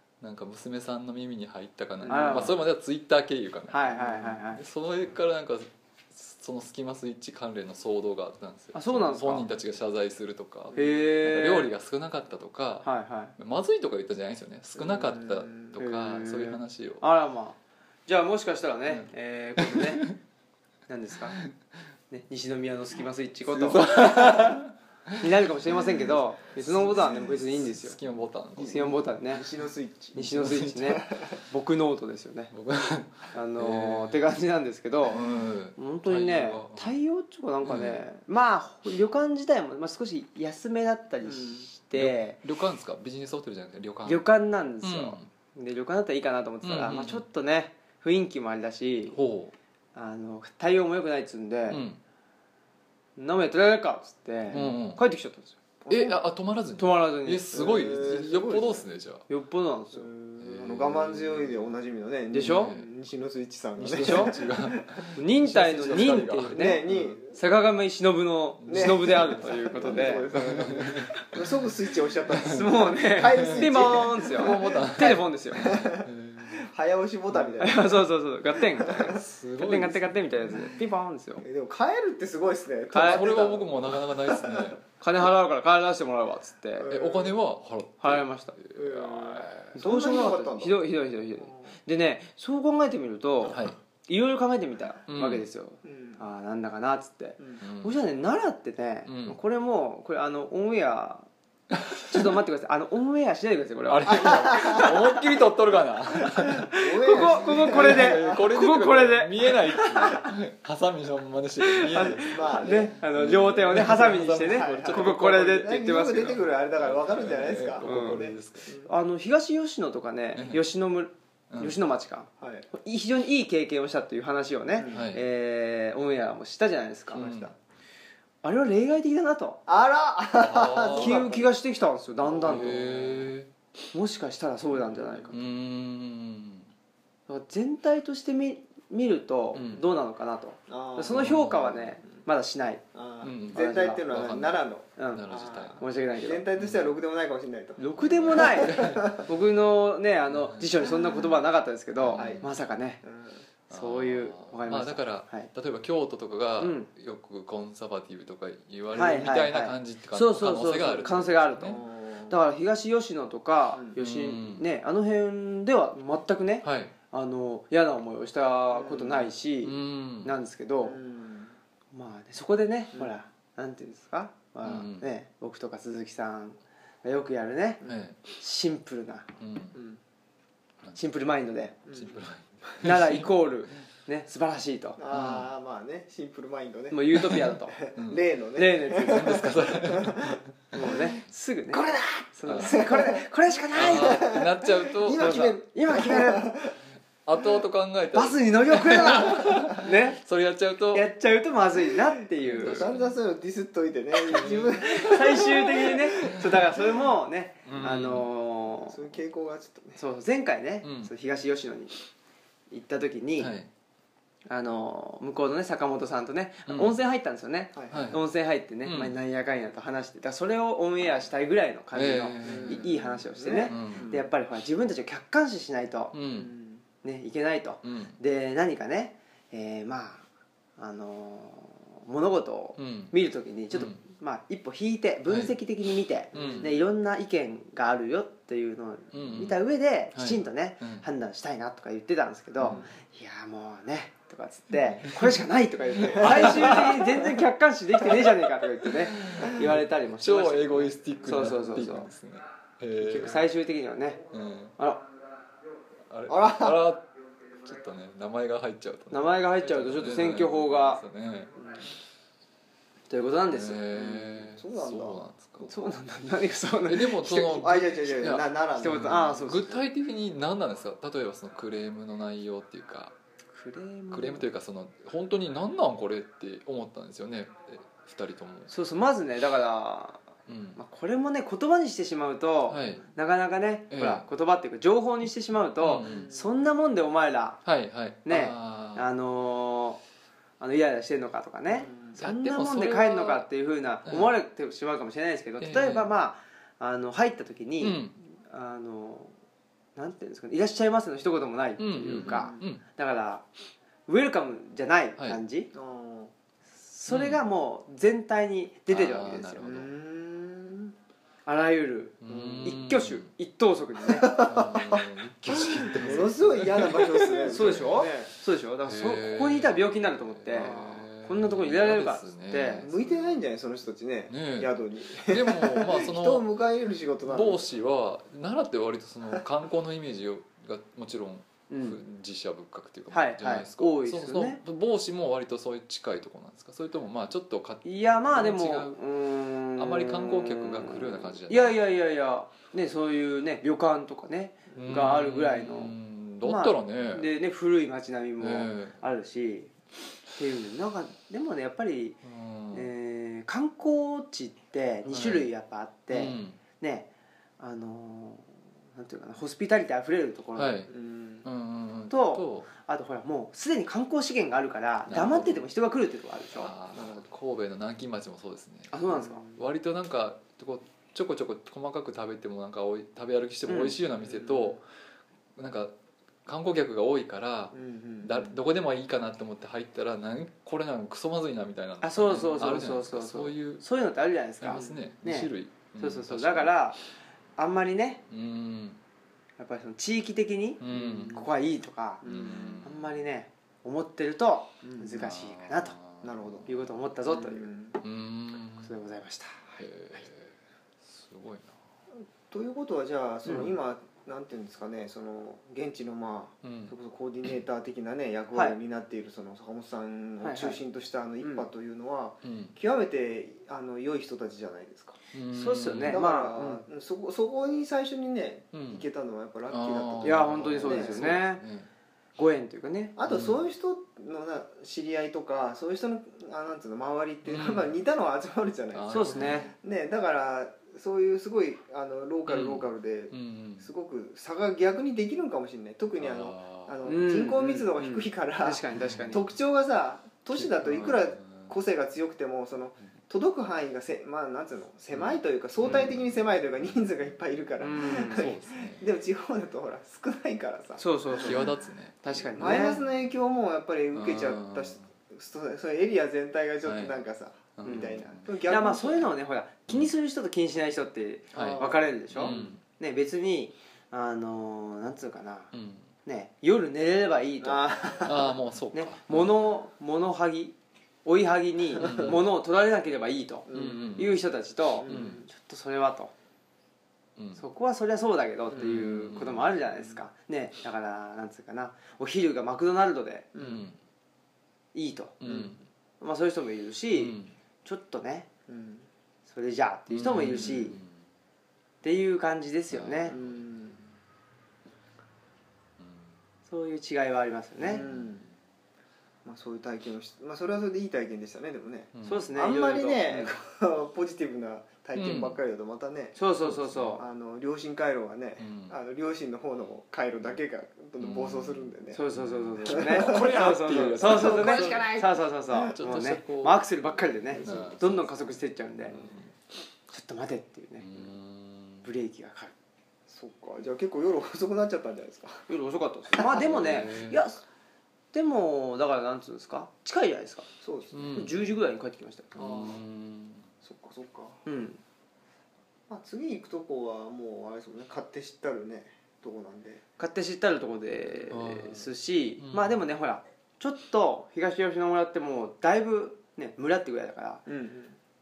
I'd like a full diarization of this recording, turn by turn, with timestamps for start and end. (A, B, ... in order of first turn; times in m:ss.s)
0:00.2-0:17.0 A
0:02.0-0:02.6 B
0:02.1-0:02.6 C
0:03.7-0:04.6 C
0:08.7-0:09.5 C
0:10.7-0:11.7 C
0:12.8-0:13.4 C
0:14.8-0:15.7 B
0:15.8-0:20.1 C
0:18.9-0:20.2 A
0:20.9-0:21.4 C
0:22.1-0:24.6 C
0:23.5-0:29.1 A
0:25.2-0:28.0 C
0:28.6-0:29.5 C
0:29.3-0:30.2 B
0:30.2-0:31.1 A
0:30.2-0:32.5 C
0:32.5-0:34.3 A
0:33.3-0:42.4 C
0:35.1-0:37.0 A
0:37.6-0:38.0 A
0:41.2-0:41.7 B
0:41.9-0:44.3 A
0:44.0-0:49.2 C
0:44.8-0:45.3 A
0:46.6-0:47.2 A
0:49.1-0:49.5 A
0:50.0-0:51.8 C
0:51.7-0:52.0 A
0:53.2-0:55.6 C
0:54.5-0:55.0 A
0:55.8-0:56.2 B
0:55.9-0:59.3 A
0:56.8-0:58.0 C
0:57.5-0:58.9 B
0:59.3-1:00.1 C
1:00.0-1:04.9 B
1:00.4-1:01.7 A
1:02.3-1:02.7 C
1:02.4-1:02.9 A
1:03.8-1:07.2 A
1:04.0-1:04.4 C
1:05.2-1:10.4 C
1:06.5-1:07.4 B
1:08.6-1:11.4 A
1:08.7-1:18.0 B
1:12.3-1:16.7 A
1:12.4-1:15.8 C
1:17.6-1:21.4 C
1:18.8-1:19.2 B
1:19.0-1:20.8 A
1:21.4-1:24.8 B
1:22.9-1:23.2 C
1:22.9-1:24.8 A
1:25.0-1:26.9 C
1:26.8-1:27.4 B
1:26.9-1:29.8 A
1:28.0-1:28.6 C
1:28.8-1:30.8 B
1:29.7-1:41.3 C
1:33.5-1:33.8 A
1:35.1-1:35.5 A
1:35.8-1:36.2 B
1:37.6-1:38.0 A
1:39.1-1:39.4 A
1:41.7-1:42.2 A
1:42.1-1:45.2 C
1:43.9-1:58.8 A
1:44.1-1:45.0 B
1:46.2-1:48.5 B
1:46.6-1:50.3 C
1:51.7-1:56.4 C
1:52.1-1:53.0 B
1:54.4-1:58.9 B
1:57.8-1:58.2 C
1:58.8-2:07.3 C
2:00.4-2:00.6 A
2:01.5-2:01.8 A
2:02.4-2:02.7 B
2:04.8-2:05.1 B
2:04.9-2:05.2 A
2:07.1-2:07.5 A
2:07.1-2:07.5 B
2:08.4-2:09.6 C
2:09.7-2:11.5 B
2:10.4-2:11.3 A
2:11.0-2:13.2 C
2:12.2-2:13.2 B
2:12.4-2:13.5 A
2:13.9-2:15.4 C
2:14.9-2:15.3 B
2:15.3-2:16.7 A
2:17.3-2:22.8 C
2:19.5-2:19.8 A
2:20.7-2:21.4 B
2:21.1-2:22.0 A
2:22.9-2:29.2 B
2:23.2-2:25.8 A
2:23.5-2:24.0 C
2:25.0-2:25.2 C
2:25.8-2:26.5 C
2:26.6-2:26.9 A
2:27.8-2:33.0 C
2:28.0-2:29.2 A
2:30.3-2:30.9 A
2:32.0-2:32.6 A
2:32.2-2:32.5 B
2:33.0-2:33.4 B
2:33.7-2:35.5 C
2:33.7-2:41.8 A
2:36.6-2:36.9 C
2:38.9-2:51.0 C
2:41.6-2:42.4 B
2:44.0-2:44.7 A
2:46.6-2:46.9 A
2:48.7-2:49.3 B
2:49.6-2:50.3 A
2:50.8-2:51.6 B
2:51.9-2:59.3 C
2:54.6-2:55.1 A
2:57.8-2:58.2 A
2:59.4-2:59.8 A
2:59.7-3:00.0 B
3:01.0-3:01.8 C
3:01.9-3:02.2 B
3:01.9-3:03.4 A
3:02.8-3:05.0 C
3:05.0-3:11.0 B
3:05.1-3:05.5 A
3:06.9-3:07.8 C
3:07.2-3:08.2 A
3:08.6-3:09.5 C
3:09.0-3:11.1 A
3:10.7-3:14.4 C
3:11.7-3:16.8 B
3:12.5-3:12.8 A
3:13.7-3:15.5 A
3:15.1-3:16.5 C
3:17.2-3:21.1 A
3:18.1-3:20.2 C
3:20.9-3:22.9 C
3:22.4-3:23.2 A
3:22.6-3:26.9 B
3:24.2-3:29.0 C
3:24.3-3:25.5 A
3:27.6-3:28.3 A
3:28.9-3:30.0 B
3:30.0-3:32.0 C
3:30.8-3:31.1 A
3:32.7-3:33.5 C
3:33.4-3:33.7 A
3:34.5-3:46.1 C
3:36.7-3:37.0 A
3:37.8-3:38.1 B
3:37.9-3:38.2 A
3:38.8-3:39.2 A
3:41.9-3:42.9 A
3:42.4-3:44.3 B
3:43.7-3:44.1 A
3:46.1-3:46.5 A
3:46.3-3:46.8 B
3:47.0-3:50.2 C
3:47.8-3:48.2 A
3:50.8-4:12.1 C
3:52.8-3:53.1 A
3:53.7-3:54.0 A
3:55.3-3:55.5 A
3:56.3-3:56.7 B
3:56.3-3:56.7 A
3:59.1-4:01.1 A
4:02.6-4:02.9 B
4:04.9-4:05.3 A
4:06.0-4:07.0 A
4:06.1-4:07.0 B
4:09.0-4:13.4 A
4:13.0-4:13.3 B
4:13.0-4:14.2 C
4:14.3-4:14.8 A
4:14.8-4:15.1 C
4:16.1-4:21.5 A
4:16.3-4:16.9 B
4:19.1-4:21.0 C
4:21.6-4:21.9 B
4:23.1-4:23.9 C
4:23.5-4:25.7 A
4:23.9-4:25.2 B
4:25.6-4:27.2 C
4:26.9-4:33.2 A
4:27.2-4:29.5 B
4:28.8-4:29.8 C
4:33.5-4:34.5 C
4:34.1-4:38.7 A
4:38.7-4:47.6 C
4:40.5-4:40.8 A
4:42.7-4:43.1 A
4:43.9-4:44.2 A
4:45.8-4:46.3 A
4:46.0-4:46.5 B
4:47.6-4:49.1 A
4:48.2-4:50.0 C
4:50.6-4:59.3 C
4:51.7-4:52.2 B
4:52.2-4:53.5 A
4:54.1-4:54.4 A
4:55.6-4:56.1 A
4:57.8-4:58.2 A
5:00.0-5:03.5 C
5:01.8-5:02.8 A
5:02.2-5:02.7 B
5:04.1-5:05.7 C
5:05.7-5:06.3 B
5:06.8-5:09.6 C
5:07.1-5:07.4 A
5:08.9-5:09.9 A
5:09.6-5:10.9 B
5:11.5-5:14.4 C
5:12.2-5:13.3 A
5:12.3-5:12.8 B
5:14.1-5:18.3 B
5:14.4-5:17.9 A
5:17.5-5:22.8 C
5:18.9-5:23.3 A
5:20.6-5:20.9 B
5:22.8-5:27.6 B
5:24.3-5:26.5 A
5:27.2-5:39.0 A
5:31.7-5:32.0 C
5:33.1-5:34.6 C
5:37.8-5:49.7 C
5:39.8-5:41.8 A
5:44.8-5:47.3 A
5:48.4-5:49.0 A
5:50.3-5:52.2 C
5:52.2-5:52.9 A
5:52.7-5:57.1 C
5:55.1-5:55.5 A
5:56.1-5:56.6 A
5:57.6-6:00.7 C
6:00.6-6:02.7 A
6:00.9-6:01.5 B
6:02.1-6:06.7 C
6:05.1-6:05.6 A
6:06.6-6:14.9 A
6:06.9-6:07.3 B
6:08.9-6:09.4 C
6:09.1-6:09.6 B
6:13.7-6:14.0 C
6:14.2-6:14.8 B
6:15.6-6:15.9 A
6:16.5-6:23.8 A
6:17.7-6:18.5 B
6:22.0-6:27.0 C
6:24.6-6:26.8 A
6:24.7-6:25.0 B
6:27.6-6:28.2 C
6:28.3-6:29.0 A
6:29.6-6:35.9 C
6:30.8-6:31.5 A
6:30.9-6:31.4 B
6:32.2-6:32.8 B
6:32.2-6:33.2 A
6:34.8-6:35.2 B
6:35.2-6:36.9 A
6:36.2-6:36.7 B
6:36.7-6:37.7 C
6:37.3-6:38.0 B
6:38.0-6:39.1 A
6:38.8-6:39.6 C
6:39.8-6:41.8 A
6:42.5-6:55.2 B
6:43.5-6:43.7 C
6:46.6-6:47.0 A
6:50.4-6:50.8 C
6:51.4-6:51.7 C
6:52.4-6:52.8 A
6:55.3-6:56.2 A
6:55.5-6:56.8 C
6:56.1-7:01.3 B
6:58.7-6:59.1 A
6:59.7-7:01.9 A
7:00.2-7:01.6 C
7:02.4-7:03.2 C
7:03.2-7:31.7 B
7:03.3-7:03.6 A
7:07.4-7:07.9 A
7:08.9-7:09.7 A
7:09.1-7:09.7 C
7:12.5-7:13.9 A
7:16.2-7:17.0 A
7:17.0-7:19.5 C
7:18.9-7:19.4 A
7:20.6-7:21.7 A
7:25.1-7:26.3 A
7:27.8-7:28.5 C
7:27.9-7:29.1 A
7:31.0-7:31.7 C
7:31.4-7:33.1 A
7:32.2-7:33.0 C
7:32.6-7:39.3 B
7:34.1-7:35.1 A
7:36.8-7:37.1 A
7:37.8-7:38.5 A
7:37.8-7:45.7 C
7:41.5-7:42.8 A
7:41.6-7:42.8 B
7:45.7-7:46.1 A
7:46.2-7:48.3 C
7:47.6-7:48.5 B
7:48.1-7:49.6 A
7:48.9-7:56.3 C
7:52.0-7:52.4 A
7:53.7-7:54.2 B
7:53.7-7:54.5 A
7:55.0-7:55.5 B
7:55.0-7:55.4 A
7:57.4-7:57.6 A
7:57.6-8:03.5 C
7:58.8-7:59.8 A
8:03.6-8:03.9 B
8:03.6-8:04.0 A
8:04.9-8:05.4 C
8:05.4-8:05.8 A
8:05.5-8:05.7 B
8:06.2-8:08.5 C
8:07.1-8:07.6 A
8:08.7-8:09.1 B
8:09.5-8:11.0 C
8:10.1-8:11.1 A
8:12.0-8:13.4 C
8:12.9-8:13.6 A
8:13.3-8:14.0 B
8:16.0-8:16.3 A
8:16.7-8:18.0 C
8:17.8-8:18.4 B
8:17.9-8:18.5 A
8:19.4-8:26.4 B
8:22.1-8:22.5 A
8:22.2-8:23.5 C
8:25.2-8:25.6 A
8:26.4-8:27.2 C
8:26.6-8:27.2 A
8:27.2-8:32.2 B
8:28.6-8:29.0 A
8:31.2-8:35.1 A
8:32.1-8:39.2 C
8:32.9-8:36.0 B
8:35.9-8:36.8 A
8:37.5-8:38.5 A
8:37.6-8:37.9 B
8:39.1-8:39.4 A
8:40.1-8:41.3 C
8:41.0-8:42.1 A
8:42.0-8:42.7 C
8:43.3-8:45.7 B
8:45.7-8:47.6 C
8:46.4-8:47.4 A
8:48.3-8:50.7 C
8:50.8-8:51.4 B
8:51.1-8:51.7 A
8:51.3-8:52.6 C
8:52.6-8:53.7 A
8:52.6-8:53.0 B
8:53.8-8:54.6 B
8:54.7-8:55.0 C
8:56.1-9:00.0 B
9:00.2-9:07.6 C
9:01.5-9:02.1 A
9:02.6-9:03.0 A
9:07.7-9:08.2 B